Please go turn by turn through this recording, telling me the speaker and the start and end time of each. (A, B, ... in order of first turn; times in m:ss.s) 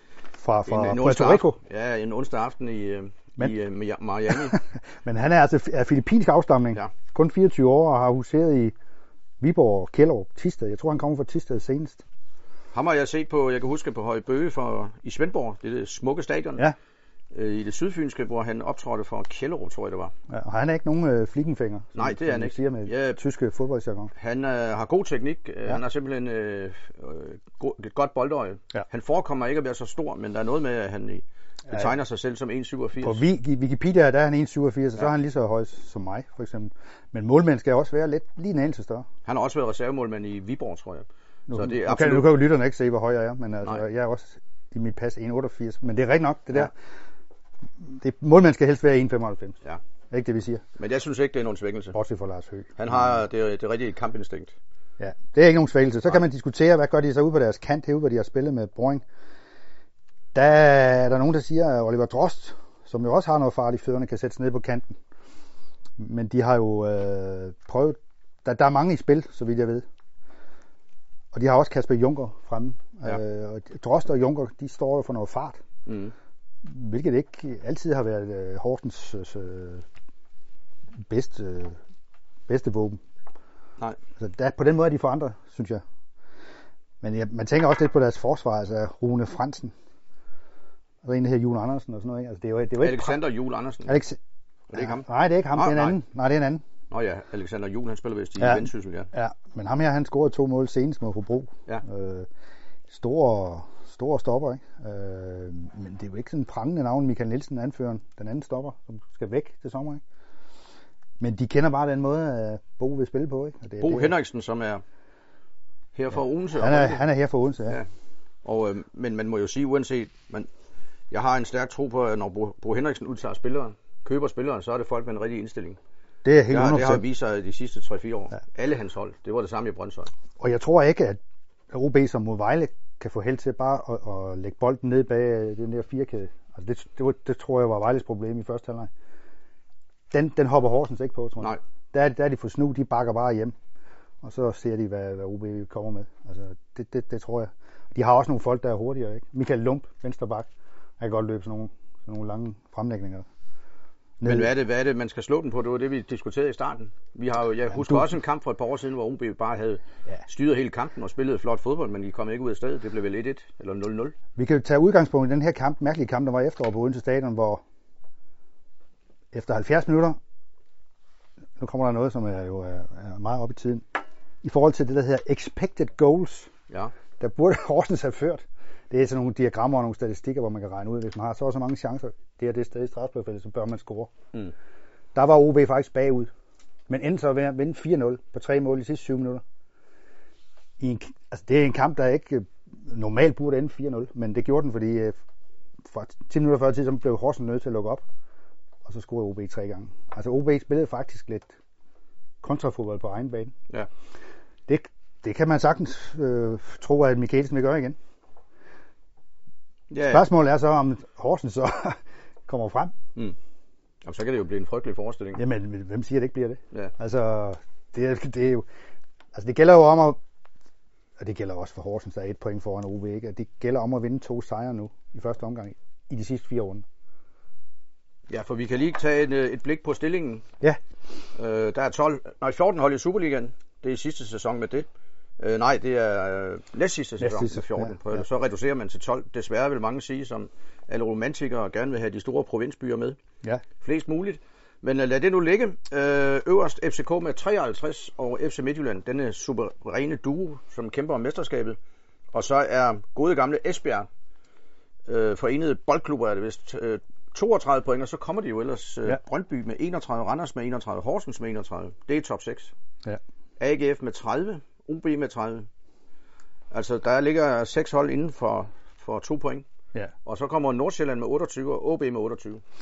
0:00.4-0:01.6 A
0:00.6-0:04.6 B
0:04.3-0:08.7 A
0:09.4-0:12.0 A
0:12.7-0:16.7 B
0:17.3-0:20.1 B
0:20.3-0:24.1 A
0:21.9-0:23.2 B
0:24.1-0:33.2 B
0:33.0-0:39.0 A
0:39.2-0:42.4 B
0:41.5-0:46.7 A
0:47.8-0:49.6 A
0:50.1-0:50.6 A
0:50.8-0:52.0 B
0:51.9-0:53.0 A
0:52.8-0:54.5 B
0:55.0-0:59.0 A
1:00.3-1:05.0 A
1:06.0-1:09.8 A
1:11.3-1:15.6 A
1:15.8-1:16.1 B
1:16.6-1:19.8 A
1:21.0-1:21.8 A
1:22.5-1:23.0 A
1:24.2-1:25.8 A
1:27.0-1:29.7 A
1:31.0-1:33.2 A
1:32.8-1:34.0 B
1:33.8-1:34.2 A
1:34.7-1:36.0 B
1:34.7-1:36.6 A
1:36.9-1:39.1 B
1:38.4-1:42.3 A
1:42.9-1:50.0 A
1:51.2-1:54.1 A
1:53.8-1:54.8 B
1:55.9-1:57.0 B
1:56.5-1:57.8 A
1:58.4-2:00.5 B
2:01.1-2:05.8 B
2:06.2-2:07.0 A
2:06.5-2:10.1 B
2:10.4-2:11.2 A
2:11.7-2:18.9 A
2:20.1-2:23.5 A
2:24.2-2:30.5 A
2:31.0-2:33.2 A
2:34.2-2:34.5 A
2:34.2-2:44.1 B
2:37.7-2:38.1 A
2:44.4-2:47.6 A
2:49.3-2:50.2 A
2:51.6-2:53.8 A
2:54.4-2:56.5 A
2:57.2-3:04.1 A
3:05.1-3:06.3 A
3:06.9-3:09.4 A
3:10.8-3:15.1 A
3:15.8-3:18.0 A
3:18.8-3:21.5 A
3:22.4-3:23.5 A
3:24.7-3:28.0 A
3:29.9-3:30.3 B
3:30.1-3:32.9 A
3:34.0-3:35.4 B
3:35.4-3:38.6 A
3:39.3-3:40.2 A
3:41.2-3:46.8 A
3:48.3-3:50.4 B
3:51.3-3:54.8 B
3:55.4-4:03.2 B
3:57.2-3:58.2 A
4:03.8-4:11.8 B
4:12.3-4:14.1 B
4:15.1-4:22.7 B
4:23.6-4:25.7 B
4:26.7-4:29.6 B
4:30.2-4:32.6 B